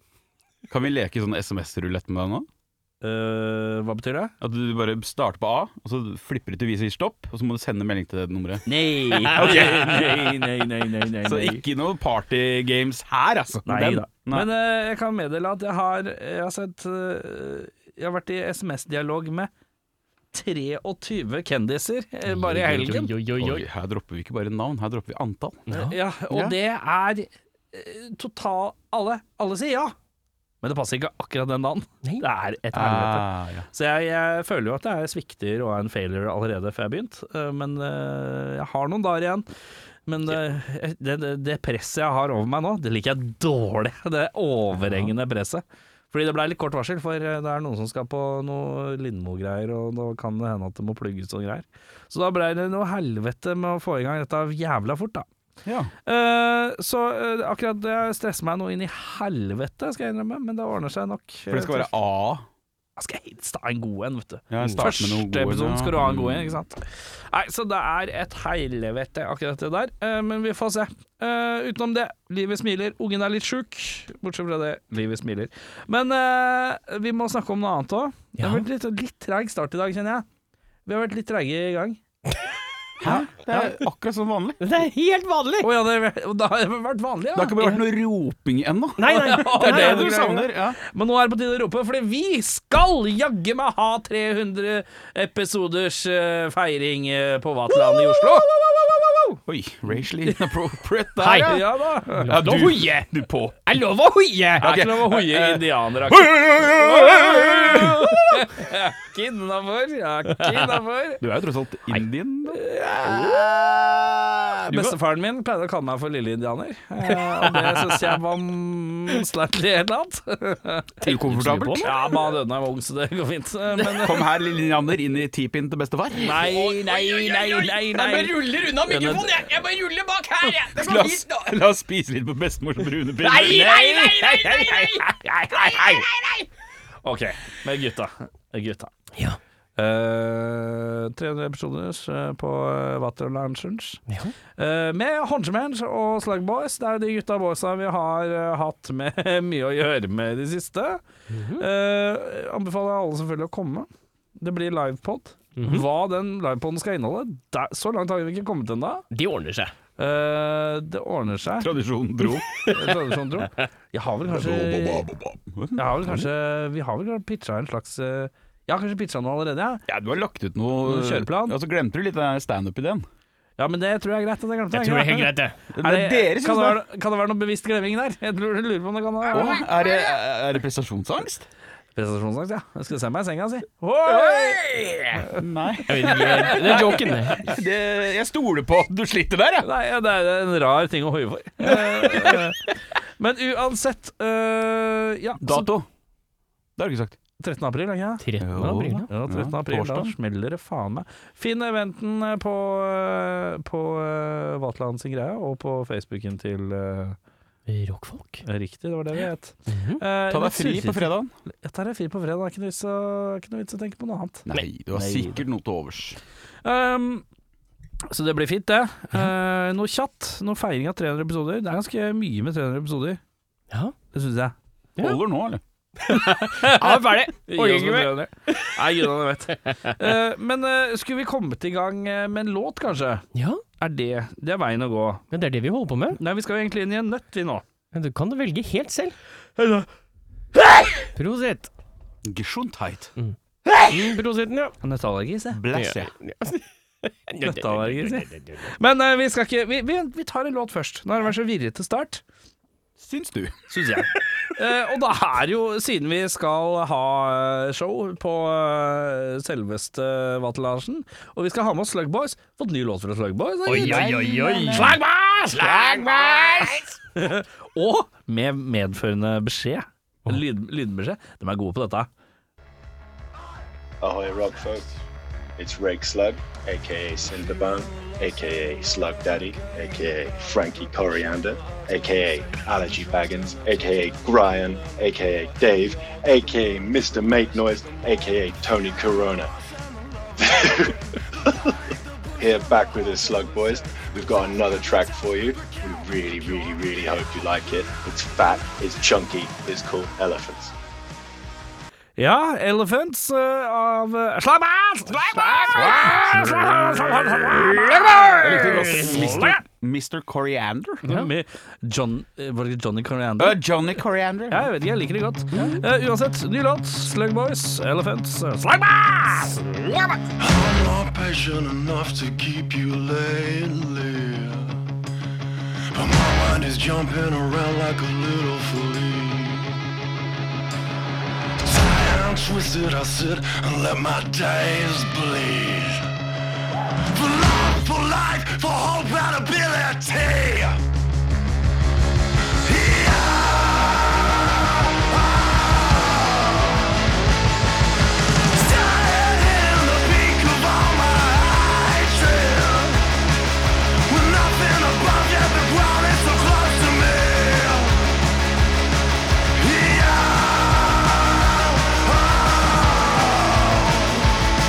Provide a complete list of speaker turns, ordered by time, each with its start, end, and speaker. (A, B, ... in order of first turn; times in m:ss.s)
0:00.7-0:02.5 A
0:03.0-0:04.3 B
0:04.4-0:10.4 A
0:08.6-0:11.6 B
0:11.2-0:14.5 A
0:13.6-0:19.5 B
0:20.3-0:23.1 B
0:22.2-0:23.6 C
0:23.4-0:25.6 A
0:25.7-0:26.0 C
0:25.7-0:29.9 B
0:26.3-0:26.6 A
0:30.6-0:39.5 B
0:32.7-0:33.7 A
0:40.0-0:55.3 B
0:55.6-0:55.9 A
0:56.0-1:01.9 B
1:01.5-1:02.4 A
1:03.0-1:20.2 B
1:04.5-1:06.6 A
1:18.4-1:18.6 C
1:20.8-1:22.0 B
1:23.0-1:24.6 A
1:23.1-1:23.7 C
1:24.6-1:25.7 C
1:25.6-1:27.7 B
1:27.3-1:30.8 A
1:29.0-1:30.4 C
1:29.1-1:38.5 B
1:39.4-1:41.6 A
1:41.2-1:41.6 C
1:41.4-1:42.3 B
1:42.2-1:43.1 C
1:42.3-1:43.6 A
1:43.6-1:44.8 C
1:44.6-1:48.1 A
1:44.6-1:51.2 B
1:51.2-1:52.6 A
1:52.6-1:55.0 C
1:53.0-1:53.4 B
1:54.7-2:01.0 B
1:57.5-1:58.0 C
2:01.0-2:01.9 A
2:01.1-2:01.9 C
2:01.8-2:04.2 B
2:04.0-2:06.5 A
2:06.2-2:09.5 B
2:06.4-2:11.2 C
2:08.5-2:09.6 A
2:10.6-2:13.8 A
2:13.2-2:15.0 C
2:13.4-2:16.0 B
2:15.8-2:16.2 C
2:17.0-2:18.9 B
2:19.8-2:24.0 B
2:24.1-2:24.4 C
2:24.6-2:31.0 B
2:31.3-2:31.6 C
2:31.6-2:39.1 B
2:35.6-2:35.8 C
2:39.1-2:39.7 C
2:40.0-2:41.7 B
2:41.6-2:42.5 A
2:42.5-2:43.0 C
2:42.7-2:45.1 B
2:44.3-2:46.3 A
2:45.8-2:49.8 B
2:49.9-2:53.0 A
2:50.8-2:51.6 B
2:53.6-2:59.7 B
2:54.7-2:55.6 C
2:55.7-2:56.8 A
2:59.3-3:01.4 A
3:02.0-3:07.1 B
3:05.3-3:09.7 A
3:05.9-3:07.5 C
3:09.6-3:12.6 B
3:13.2-3:15.7 B
3:15.4-3:15.9 A
3:16.8-3:17.2 A
3:17.4-3:18.2 B
3:18.2-3:19.1 C
3:18.4-3:20.1 A
3:19.1-3:27.2 B
3:27.7-3:28.4 C
3:28.4-3:35.4 B
3:29.7-3:30.0 C
3:30.3-3:31.3 A
3:34.4-3:36.2 A
3:36.6-3:37.2 B
3:38.1-3:43.2 B
3:44.1-3:44.5 B
3:45.0-3:45.6 A
3:46.0-3:48.8 C
3:46.1-3:53.2 B
3:53.3-3:53.6 C
3:53.8-3:55.2 B
3:55.3-3:56.2 C
3:56.2-3:57.6 B
3:57.9-3:59.2 C
3:59.6-3:59.8 B
4:01.1-4:01.7 C
4:02.2-4:03.1 A
4:03.2-4:04.7 C
4:04.8-4:05.6 B
4:05.5-4:06.1 A
4:05.7-4:08.7 C
4:07.4-4:12.2 B
4:13.0-4:13.6 A
4:13.7-4:25.8 B
4:23.6-4:26.9 C
4:23.7-4:25.0 A
4:25.6-4:26.6 A
4:27.1-4:32.1 B
4:34.0-4:35.0 D
4:35.6-4:49.5 D
4:50.4-4:51.0 D
4:52.4-5:00.7 D
5:02.2-5:09.6 B
5:05.7-5:06.2 A
5:05.8-5:06.6 C
5:08.4-5:11.0 A
5:11.0-5:13.6 B
5:13.4-5:14.7 A
5:14.5-5:20.2 B
5:15.5-5:15.8 C
5:20.4-5:24.8 E
5:25.9-5:29.8 E
5:31.6-5:36.1 E
5:37.1-5:40.8 E
5:42.5-5:46.9 E
5:48.5-5:53.1 E
5:54.1-5:58.1 E
5:59.5-6:04.3 E